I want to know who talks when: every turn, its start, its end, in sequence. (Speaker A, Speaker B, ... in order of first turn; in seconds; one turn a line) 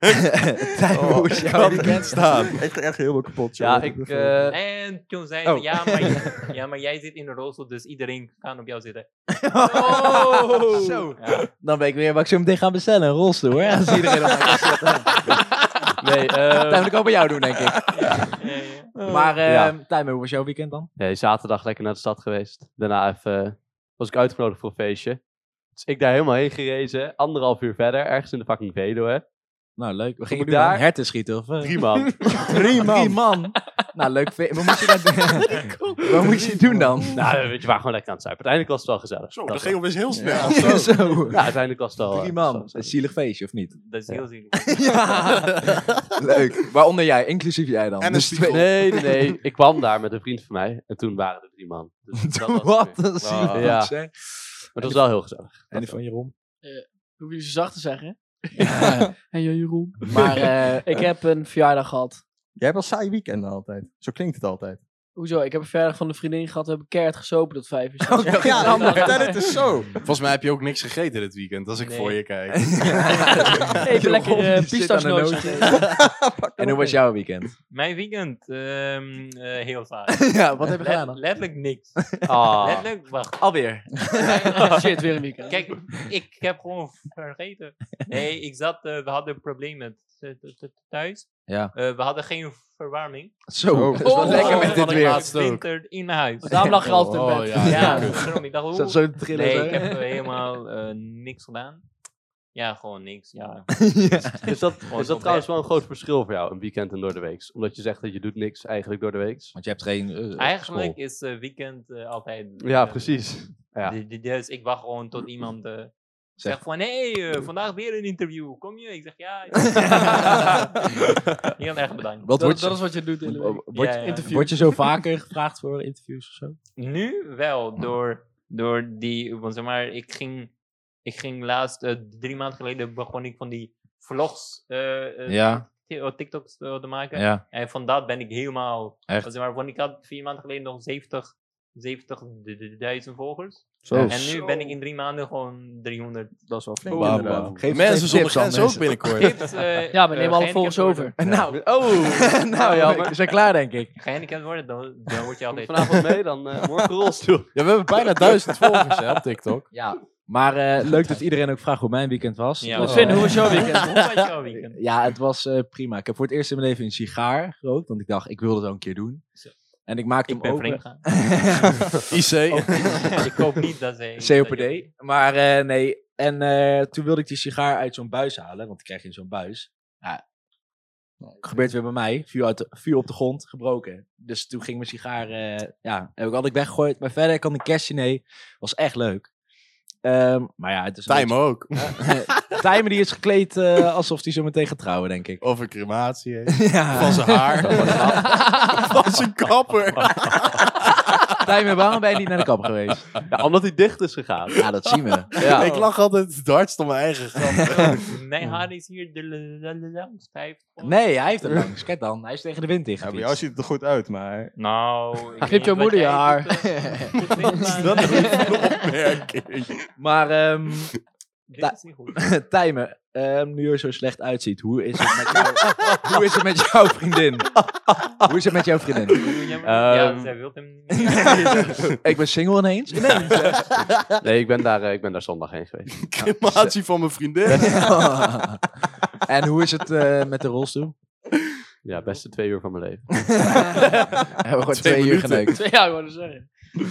Speaker A: 0.2-2.5
Speaker B: 0.9-4.5
Speaker C: 2.2-2.5
Speaker D: 3.6-4.5
Speaker E: 4.5-9.1
Speaker A: 5.4-6.3
Speaker A: 9.3-15.4
Speaker F: 9.7-11.0
Speaker E: 11.1-11.5
Speaker E: 13.5-13.8
Speaker D: 16.0-17.0
Speaker A: 16.5-18.3
Speaker E: 17.9-18.9
Speaker A: 19.1-20.9
Speaker D: 19.4-19.7
Speaker D: 21.0-25.2
Speaker D: 25.8-29.2
Speaker A: 29.8-37.2
Speaker D: 30.3-30.9
Speaker D: 31.6-33.0
Speaker F: 32.3-32.7
Speaker F: 34.8-36.6
Speaker D: 37.0-39.9
Speaker C: 39.3-41.1
Speaker B: 40.1-40.6
Speaker A: 40.4-48.8
Speaker D: 41.3-43.0
Speaker E: 43.8-45.2
Speaker C: 48.0-49.0
Speaker D: 48.4-54.0
Speaker A: 52.2-55.0
Speaker C: 53.3-53.7
Speaker D: 54.7-56.0
Speaker A: 55.7-56.3
Speaker F: 56.6-62.2
Speaker A: 58.6-59.1
Speaker B: 58.8-59.1
Speaker A: 60.1-60.9
Speaker B: 62.6-64.8
Speaker F: 65.2-69.5
Speaker A: 68.0-69.4
Speaker B: 68.2-70.0
Speaker E: 68.7-69.4
Speaker C: 70.0-73.7
Speaker E: 71.8-72.2
Speaker A: 72.5-77.5
Speaker F: 73.8-75.8
Speaker B: 75.6-77.0
Speaker E: 77.7-83.5
Speaker A: 80.1-81.2
Speaker D: 82.2-82.9
Speaker A: 83.4-84.6
Speaker E: 84.2-84.8
Speaker F: 84.6-85.7
Speaker E: 85.5-93.3
Speaker A: 91.5-91.7
Speaker A: 93.5-95.3
Speaker B: 93.7-94.3
Speaker F: 94.0-94.8
Speaker E: 94.1-96.9
Speaker C: 94.2-95.7
Speaker F: 96.4-98.4
Speaker C: 97.0-98.4
Speaker E: 97.6-101.8
Speaker A: 97.6-97.9
Speaker A: 98.7-99.9
Speaker E: 102.5-103.7
Speaker A: 103.8-104.5
Speaker D: 104.4-109.5
Speaker E: 104.9-105.5
Speaker A: 109.5-111.0
Speaker E: 110.4-122.3
Speaker D: 112.6-114.0
Speaker A: 119.8-120.6
Speaker A: 122.2-126.6
Speaker F: 122.4-124.8
Speaker E: 123.7-124.3
Speaker E: 126.8-130.5
Speaker E: 131.0-146.3
Speaker A: 135.3-135.6
Speaker A: 137.1-137.4
Speaker B: 143.8-144.2
Speaker A: 143.9-144.2
Speaker F: 144.4-144.7
Speaker B: 146.4-147.6
Speaker D: 146.9-147.7
Speaker C: 146.9-149.5
Speaker A: 147.0-149.0
Speaker E: 149.1-151.1
Speaker F: 149.9-151.2
Speaker A: 151.2-154.0
Speaker D: 151.4-153.2
Speaker E: 154.0-155.9
Speaker D: 155.5-159.2
Speaker C: 157.5-159.7
Speaker A: 159.7-163.6
Speaker E: 162.6-164.8
Speaker F: 162.8-164.1
Speaker A: 164.7-169.2
Speaker A: 169.9-173.3
Speaker E: 170.2-171.0
Speaker C: 172.1-173.2
Speaker E: 172.8-174.9
Speaker A: 174.2-180.2
Speaker B: 181.2-181.7
Speaker A: 181.4-189.3
Speaker A: 190.0-195.4
Speaker C: 191.1-192.3
Speaker C: 195.4-201.4
Speaker A: 196.5-198.2
Speaker D: 197.6-198.3
Speaker A: 201.4-203.1
Speaker D: 203.3-204.6
Speaker A: 204.6-205.7
Speaker D: 205.3-205.7
Speaker C: 205.4-208.0
Speaker B: 205.6-205.9
Speaker E: 207.4-211.0
Speaker A: 210.8-213.4
Speaker B: 213.0-214.5
Speaker E: 214.6-218.5
Speaker F: 215.4-216.6
Speaker A: 216.8-217.1
Speaker C: 217.2-219.9
Speaker F: 217.5-218.6
Speaker A: 220.0-220.9
Speaker E: 221.5-222.2
Speaker A: 221.6-227.5
Speaker A: 228.2-229.2
Speaker E: 229.1-231.8
Speaker D: 229.6-230.3
Speaker A: 231.1-233.7
Speaker D: 234.2-235.9
Speaker C: 235.9-238.1
Speaker A: 236.4-236.7
Speaker D: 237.4-237.8
Speaker A: 237.6-238.7
Speaker A: 239.2-240.9
Speaker D: 241.8-243.4
Speaker A: 243.3-245.6
Speaker C: 244.7-245.6
Speaker F: 245.4-246.5